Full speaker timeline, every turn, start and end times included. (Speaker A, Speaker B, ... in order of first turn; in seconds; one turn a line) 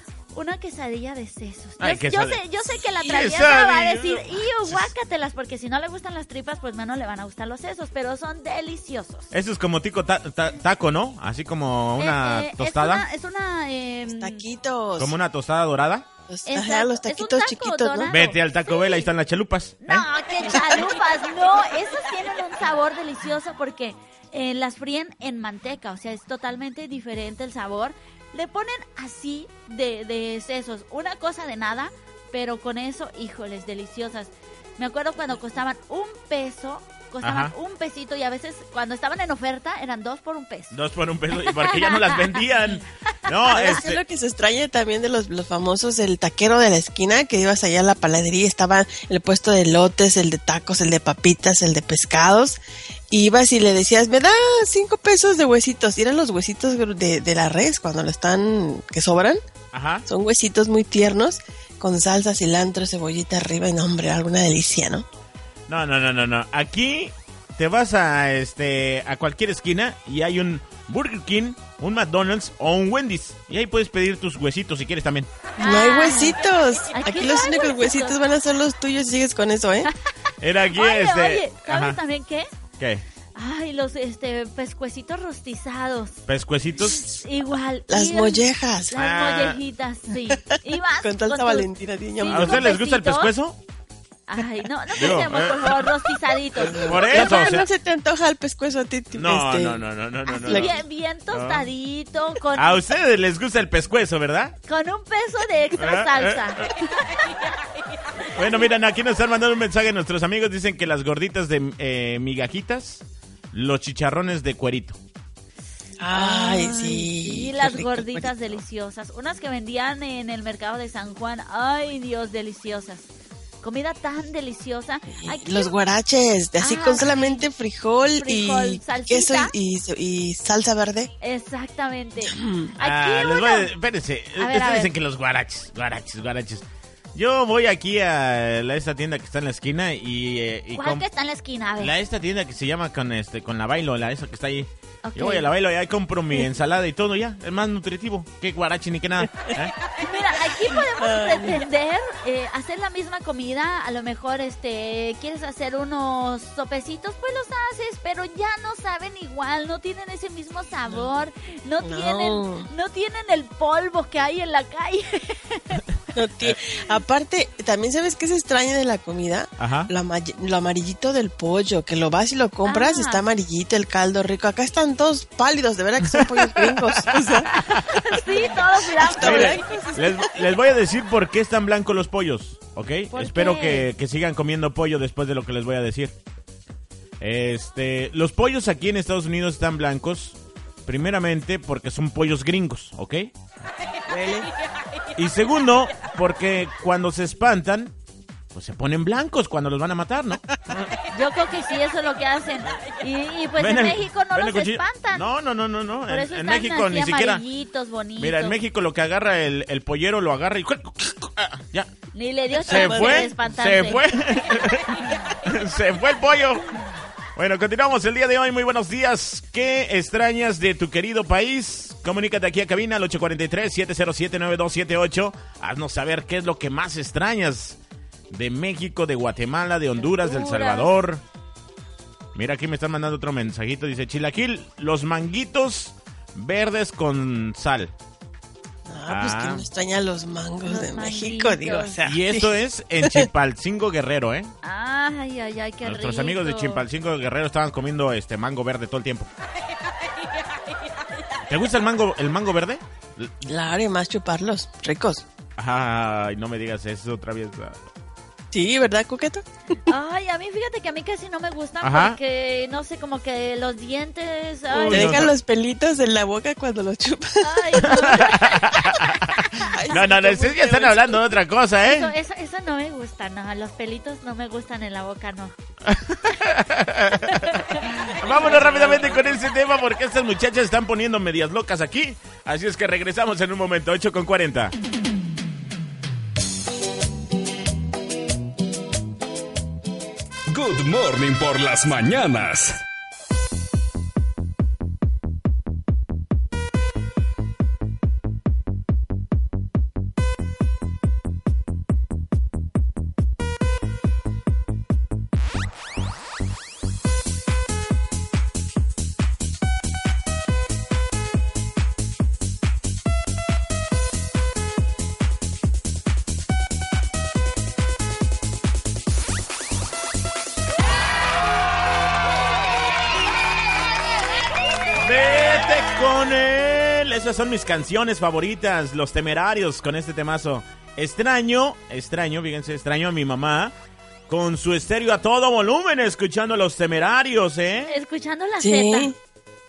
Speaker A: 0.3-9.3
Speaker B: 1.8-4.9
Speaker B: 9.3-13.0
Speaker A: 12.0-14.4
Speaker C: 14.1-15.1
Speaker B: 15.0-16.1
Speaker C: 16.3-18.1
Speaker A: 16.5-19.1
Speaker B: 18.1-20.1
Speaker A: 19.8-40.7
Speaker B: 37.2-37.5
Speaker B: 40.7-44.0
Speaker A: 41.4-42.4
Speaker C: 43.5-52.6
Speaker C: 53.1-59.4
Speaker B: 59.7-60.0
Speaker C: 60.1-65.0
Speaker B: 65.7-75.3
Speaker A: 75.6-76.4
Speaker C: 75.6-79.9
Speaker A: 76.9-78.2
Speaker B: 80.4-82.0
Speaker A: 80.7-82.5
Speaker A: 83.3-86.2
Speaker B: 86.3-87.1
Speaker A: 86.8-91.7
Speaker C: 87.9-88.9
Speaker B: 89.0-89.6
Speaker C: 91.0-92.7
Speaker A: 92.2-93.3
Speaker B: 92.3-93.6
Speaker A: 94.3-97.4
Speaker B: 95.0-95.9
Speaker C: 96.6-99.8
Speaker B: 96.7-97.7
Speaker B: 99.1-101.7
Speaker C: 100.3-100.7
Speaker A: 100.4-102.8
Speaker B: 102.5-104.5
Speaker A: 104.7-107.5
Speaker B: 105.8-106.7
Speaker B: 108.3-115.0
Speaker C: 116.0-118.3
Speaker A: 116.1-123.1
Speaker A: 123.6-125.7
Speaker C: 125.1-131.1
Speaker A: 126.6-127.4
Speaker A: 128.2-129.5
Speaker A: 131.2-133.7
Speaker C: 132.2-132.7
Speaker B: 132.8-141.0
Speaker A: 134.4-134.9
Speaker A: 140.8-141.9
Speaker B: 141.8-149.7
Speaker A: 145.0-145.4
Speaker A: 150.0-165.8
Speaker C: 150.9-151.6
Speaker C: 161.8-162.7
Speaker C: 166.1-177.5
Speaker B: 169.6-169.9
Speaker A: 172.6-173.2
Speaker B: 176.1-178.0
Speaker A: 177.5-179.6
Speaker C: 178.8-180.3
Speaker B: 179.2-186.1
Speaker A: 183.1-183.9
Speaker B: 187.2-193.3
Speaker C: 194.1-194.5
Speaker B: 195.2-197.9
Speaker B: 198.5-200.9
Speaker A: 201.1-205.3
Speaker B: 203.6-207.4
Speaker A: 206.1-208.6
Speaker B: 208.2-211.9
Speaker A: 212.1-214.0
Speaker B: 212.6-216.7
Speaker C: 212.7-213.3
Speaker B: 217.3-227.8
Speaker B: 228.3-231.2
Speaker A: 230.0-230.9
Speaker B: 232.3-237.9
Speaker C: 238.8-243.3
Speaker B: 239.1-239.7
Speaker A: 240.6-242.0
Speaker B: 242.0-244.5
Speaker A: 244.6-246.8
Speaker B: 245.8-249.3
Speaker B: 251.5-253.3
Speaker C: 253.4-255.2
Speaker B: 255.6-257.8
Speaker C: 258.5-259.4
Speaker A: 259.9-265.2
Speaker B: 261.8-262.2
Speaker B: 264.7-265.3
Speaker C: 264.9-268.2
Speaker A: 267.4-269.8
Speaker B: 267.8-272.1
Speaker C: 269.6-271.2
Speaker A: 271.8-275.5
Speaker B: 275.8-284.7
Speaker A: 277.3-279.0
Speaker C: 278.4-279.1
Speaker D: 290.5-292.8
Speaker B: 325.0-333.7
Speaker B: 334.3-337.9
Speaker A: 337.9-339.1
Speaker C: 338.6-339.1